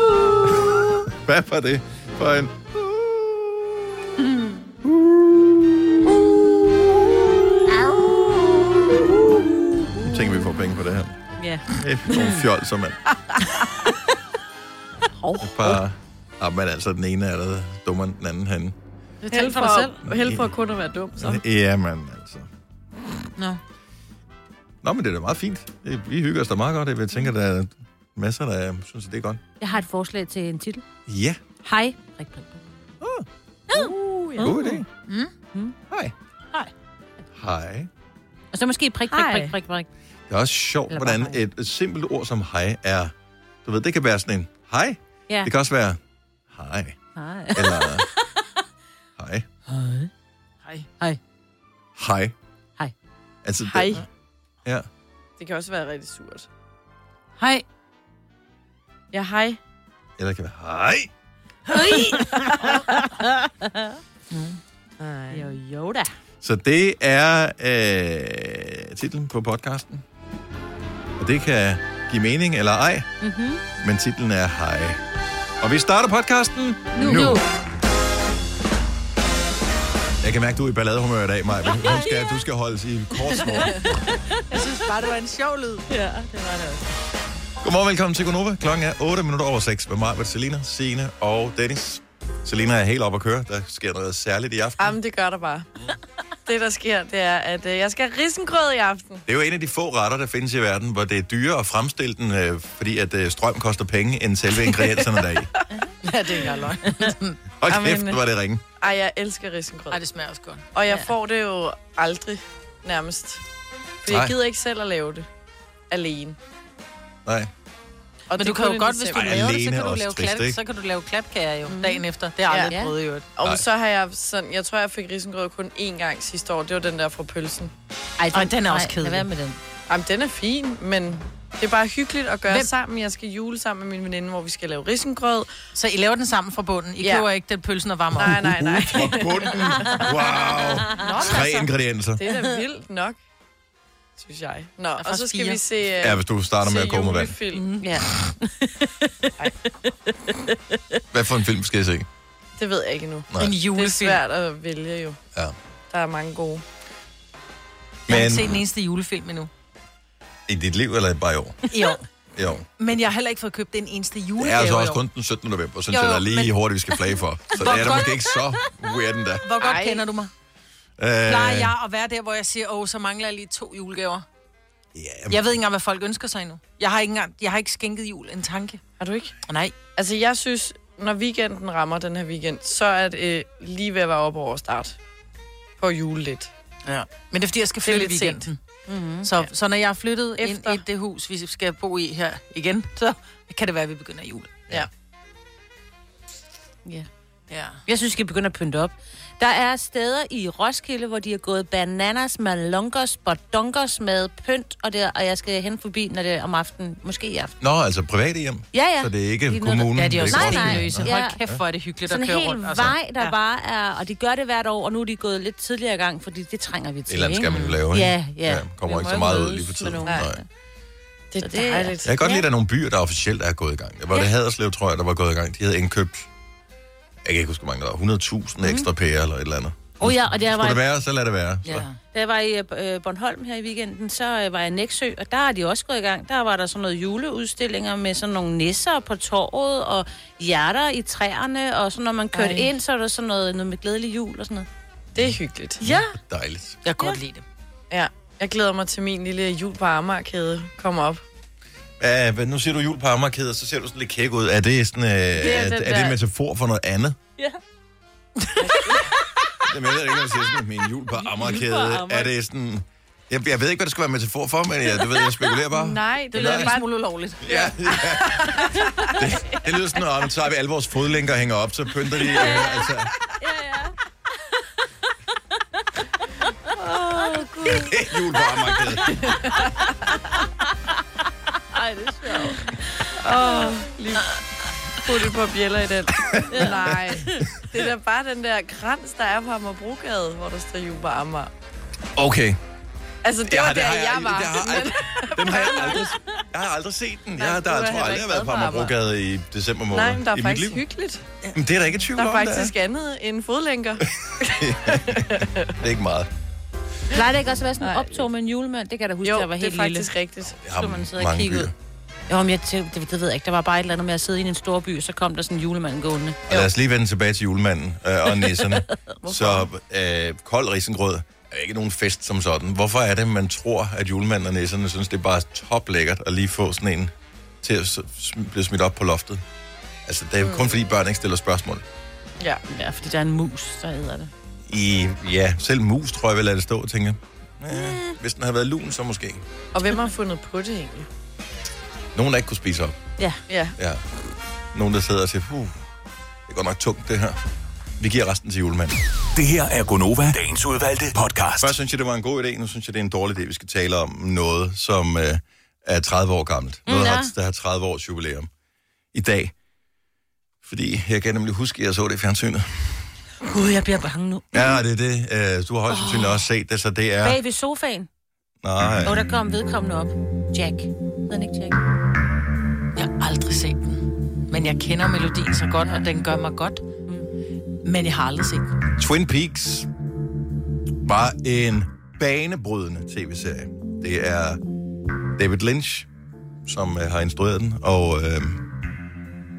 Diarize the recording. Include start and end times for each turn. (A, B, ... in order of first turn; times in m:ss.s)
0:00.6-0:03.8 A
0:04.8-0:05.9 A
0:07.7-0:10.1 B
0:10.0-0:13.0 A
0:11.4-0:12.4 B
0:15.2-0:15.8 B
0:15.4-0:18.8 A
0:19.2-0:20.0 C
0:19.3-0:21.4 D
0:20.0-0:20.5 A
0:21.2-0:22.5 A
0:24.8-0:29.4 A
0:29.6-0:30.8 B
0:31.1-0:31.4 A
0:31.6-0:32.6 B
0:33.0-0:33.3 A
0:33.7-0:34.8 B
0:34.4-0:34.8 A
0:35.1-0:35.3 C
0:35.5-0:35.8 B
0:37.3-0:37.9 A
0:38.5-0:39.9 B
0:39.1-0:39.5 C
0:40.3-0:43.1 A
0:40.9-0:41.4 B
0:43.6-0:46.0 A
0:46.5-0:47.0 A
0:47.1-0:48.2 B
0:47.5-0:48.1 A
0:49.2-0:49.5 A
0:49.7-0:50.1 B
0:52.0-0:52.3 A
0:53.4-0:54.0 A
0:53.6-0:54.0 D
0:55.4-0:56.5 D
0:59.1-0:59.6 D
1:00.2-1:01.1 A
1:01.7-1:03.9 B
1:04.3-1:04.6 C
1:05.3-1:06.1 B
1:06.4-1:10.0 A
1:11.2-1:13.1 A
1:13.2-1:13.6 B
1:13.8-1:15.0 A
1:15.6-1:17.4 A
1:16.9-1:17.4 B
1:20.2-1:23.9 A
1:21.7-1:22.3 B
1:24.5-1:25.9 C
1:25.9-1:26.9 B
1:27.6-1:35.0 A
1:34.8-1:35.7 D
1:36.4-1:39.2 D
1:39.3-1:45.5 A
1:46.0-1:47.4 C
1:47.6-1:48.6 A
1:47.7-1:48.2 D
1:48.8-1:50.0 D
1:49.9-1:51.1 C
1:50.7-1:53.4 D
1:54.0-1:55.3 D
1:54.1-1:54.4 A
1:55.9-1:56.4 D
1:57.2-1:57.5 A
1:58.3-1:59.5 D
1:58.4-2:03.3 C
1:59.1-2:00.6 A
2:01.7-2:02.0 B
2:02.7-2:02.9 B
2:03.4-2:07.7 D
2:08.2-2:09.6 B
2:08.3-2:09.3 C
2:09.9-2:15.5 D
2:15.7-2:18.5 C
2:17.0-2:17.3 D
2:18.1-2:19.6 D
2:18.3-2:22.2 A
2:20.4-2:21.4 B
2:20.9-2:21.7 C
2:22.2-2:23.2 D
2:22.3-2:22.6 B
2:24.2-2:27.8 D
2:25.0-2:25.6 C
2:26.0-2:27.4 A
2:27.5-2:29.5 B
2:30.3-2:31.0 B
2:31.1-2:32.1 A
2:32.6-2:35.2 D
2:33.4-2:34.2 C
2:35.9-2:36.6 D
2:38.1-2:38.6 A
2:38.1-2:39.5 C
2:40.5-2:41.6 A
2:41.7-2:42.0 C
2:42.3-2:42.7 A
2:42.8-2:45.0 C
2:44.4-2:49.4 A
2:45.9-2:46.5 C
2:47.5-2:48.4 C
2:49.4-2:50.3 C
2:49.6-2:50.0 D
2:51.0-2:51.7 A
2:51.3-2:54.2 C
2:54.9-2:55.4 A
2:55.3-2:58.8 C
2:59.0-2:59.3 D
2:59.5-2:59.7 C
3:00.0-3:05.0 D
3:05.8-3:06.5 D
3:06.8-3:08.6 C
3:07.8-3:08.4 D
3:08.9-3:09.3 B
3:09.2-3:14.7 C
3:10.4-3:10.8 D
3:17.5-3:17.8 C
3:17.8-3:27.5 B
3:27.6-3:31.6 A
3:28.7-3:31.5 B
3:29.9-3:33.3 C
3:32.0-3:40.4 B
3:37.1-3:40.4 A
3:40.0-3:40.3 D
3:41.3-3:42.2 D
3:41.4-3:42.4 B
3:42.0-3:46.3 A
3:47.2-3:51.9 A
3:48.6-3:48.9 B
3:50.0-3:50.8 B
3:51.7-3:51.9 C
3:52.0-4:04.7 B
4:02.4-4:02.6 D
4:05.2-4:05.8 D
4:05.9-4:06.8 A
4:06.8-4:07.4 C
4:07.9-4:11.2 D
4:12.0-4:17.2 A
4:15.4-4:16.2 D
4:18.6-4:19.0 D
4:19.6-4:26.7 A
4:21.2-4:22.3 B
4:25.0-4:25.6 B
4:25.7-4:26.9 D
4:26.3-4:28.0 C
4:27.4-4:28.6 A
4:29.2-4:33.1 A
4:32.2-4:33.9 B
4:36.7-4:38.4 B
4:37.6-4:39.3 A
4:41.7-4:42.8 B
4:43.2-4:44.3 D
4:43.4-4:43.9 B
4:45.0-4:51.5 D
4:46.3-4:46.8 A
4:46.5-4:47.5 B
4:52.2-4:52.6 A
4:53.2-4:56.1 D
4:53.4-5:00.8 A
4:57.4-4:59.0 D
4:59.9-5:01.3 D
5:01.6-5:02.8 A
5:02.2-5:05.7 D
5:04.2-5:06.3 A
5:07.1-5:10.1 B
5:07.8-5:08.3 D
5:09.2-5:10.6 D
5:10.6-5:11.7 A
5:10.7-5:11.7 B
5:12.3-5:16.4 B
5:16.5-5:29.4 A
5:18.4-5:18.8 B
5:19.2-5:19.6 D
5:30.1-5:31.8 A
5:30.4-5:30.8 D
5:32.7-5:34.3 B
5:34.7-5:39.4 A
5:37.7-5:38.2 B
5:39.7-5:41.1 D
5:42.2-5:43.0 A
5:43.5-5:43.8 D
5:43.8-5:44.0 A
5:44.7-5:45.8 A
5:46.5-5:47.4 A
5:48.0-5:49.0 A
5:49.4-5:51.8 E
5:51.6-5:58.5 A
5:56.9-5:57.3 B
5:59.1-5:59.5 A
6:00.6-6:03.0 A
6:03.4-6:04.8 B
6:04.5-6:07.4 A
6:05.9-6:06.5 B
6:07.2-6:08.1 B
6:08.6-6:09.3 A
6:09.0-6:11.8 B
6:13.0-6:16.9 C
6:17.8-6:18.7 C
6:19.0-6:19.9 A
6:21.0-6:24.6 A
6:25.4-6:26.1 A
6:26.7-6:28.7 A